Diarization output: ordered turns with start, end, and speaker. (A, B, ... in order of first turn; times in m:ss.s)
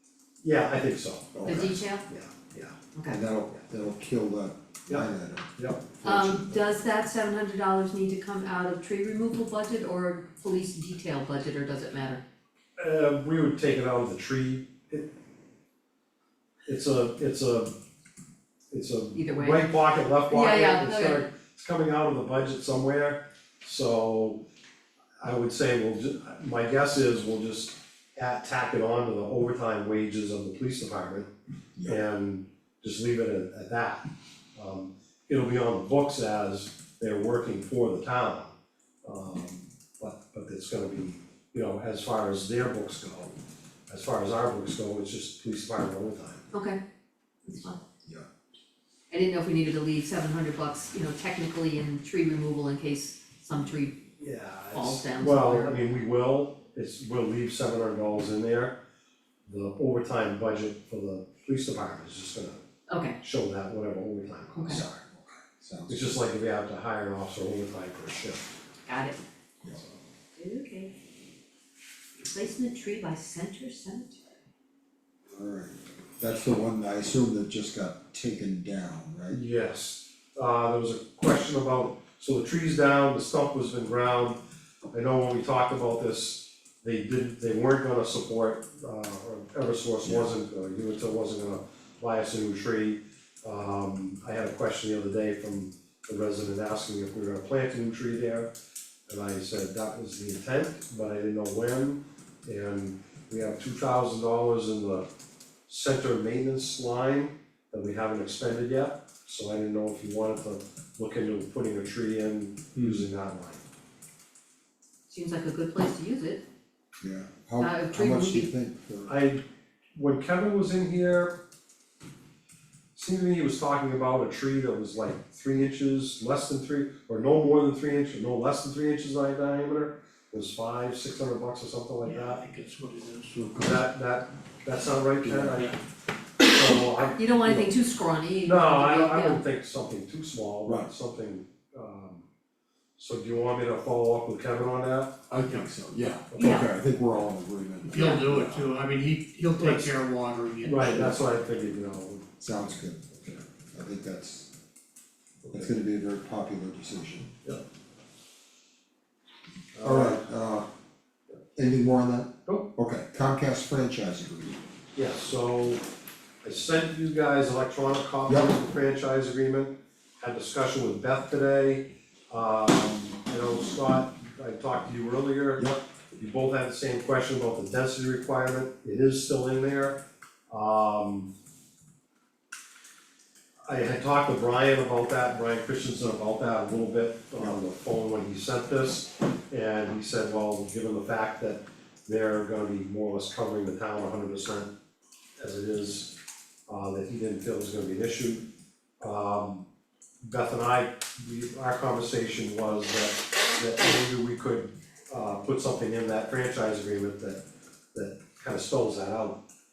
0:00.4-0:02.8 A
0:01.3-0:01.8 B
0:01.4-0:02.0 C
0:03.0-0:06.6 B
0:04.9-0:05.9 A
0:06.0-0:12.2 C
0:12.8-0:15.1 A
0:16.6-0:17.7 A
0:18.7-0:24.4 A
0:19.1-0:19.7 C
0:20.3-0:21.2 C
0:25.2-0:31.3 A
0:31.8-0:34.0 A
0:34.6-0:43.3 A
0:43.9-0:46.4 A
0:46.5-0:46.8 C
0:47.4-0:47.8 C
0:47.5-0:48.3 B
0:49.1-0:54.0 C
0:54.2-0:58.7 A
0:54.7-0:55.8 C
0:59.5-1:02.6 A
1:02.9-1:03.2 C
1:03.2-1:04.9 A
1:04.5-1:04.8 C
1:04.7-1:06.2 B
1:05.9-1:08.4 A
1:08.9-1:09.2 C
1:10.4-1:10.9 C
1:12.2-1:14.2 C
1:15.3-1:19.4 B
1:19.3-1:24.4 A
1:24.9-1:38.5 A
1:30.0-1:30.3 B
1:39.1-1:45.0 A
1:45.7-1:53.6 A
1:52.7-1:53.0 B
1:55.1-1:56.4 C
1:57.0-1:59.2 B
1:57.6-1:58.5 C
1:59.1-1:59.4 A
1:59.9-2:01.3 A
2:02.9-2:12.4 A
2:12.0-2:13.4 D
2:13.3-2:13.8 B
2:13.5-2:15.8 A
2:15.2-2:15.6 B
2:16.4-2:17.2 A
2:17.1-2:19.4 C
2:17.4-2:17.7 B
2:18.4-2:22.2 A
2:20.6-2:20.9 B
2:23.0-2:25.2 A
2:25.3-2:28.7 B
2:25.4-2:25.7 D
2:26.3-2:26.7 A
2:26.4-2:26.7 C
2:27.8-2:31.2 D
2:27.9-2:28.2 C
2:29.6-2:29.9 A
2:30.6-2:32.3 A
2:32.4-2:34.5 B
2:35.4-2:35.7 A
2:35.5-2:37.4 B
2:39.7-2:40.2 A
2:39.8-2:40.6 B
2:41.5-2:44.6 B
2:44.9-2:45.8 A
2:46.4-2:55.6 A
2:48.3-2:48.5 B
2:56.2-3:01.3 A
3:03.7-3:14.7 A
3:15.4-3:16.1 A
3:16.7-3:18.4 A
3:19.0-3:19.7 A
3:20.2-3:27.4 A
3:27.9-3:29.4 A